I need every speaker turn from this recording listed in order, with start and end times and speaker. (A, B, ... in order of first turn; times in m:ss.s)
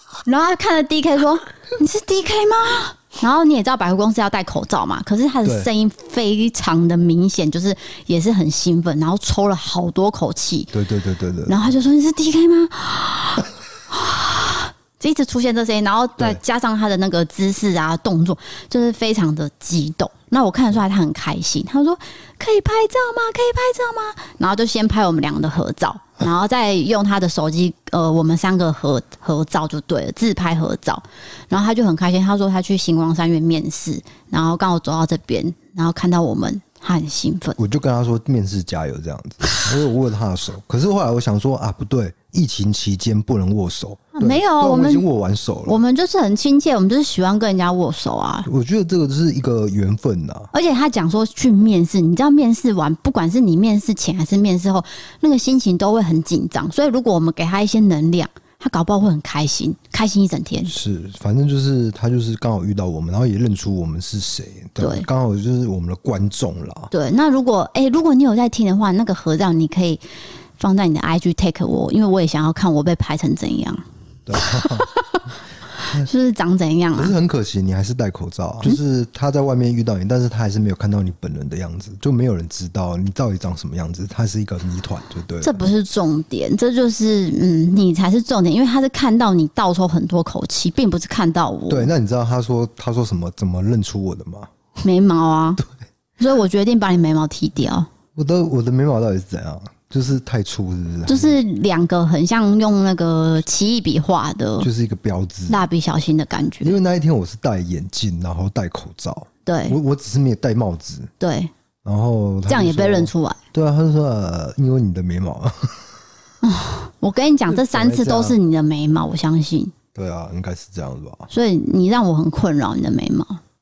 0:00.2-0:10.8 A
0:10.7-0:11.6 B
0:11.5-0:37.6 A
0:37.6-0:45.8 B
0:44.2-0:45.0 A
0:45.7-0:48.5 A
0:48.4-0:50.5 B
0:50.5-1:00.7 A
1:00.7-1:06.9 B
1:04.8-1:05.1 A
1:06.9-1:10.0 A
1:10.6-1:13.8 A
1:14.3-1:14.9 B
1:14.4-1:17.1 A
1:17.0-1:25.6 B
1:25.4-1:31.9 A
1:31.7-1:34.5 B
1:34.8-1:35.6 A
1:36.2-1:37.9 A
1:38.2-1:41.4 B
1:41.1-1:44.7 A
1:44.6-1:45.6 B
1:45.5-1:46.8 A
1:46.6-1:51.1 B
1:49.5-1:49.8 A
1:51.2-1:51.5 A
1:51.8-1:55.9 B
1:52.5-1:53.4 A
1:56.4-1:59.7 A
1:57.5-1:58.4 B
1:59.9-2:01.3 B
2:01.3-2:03.4 A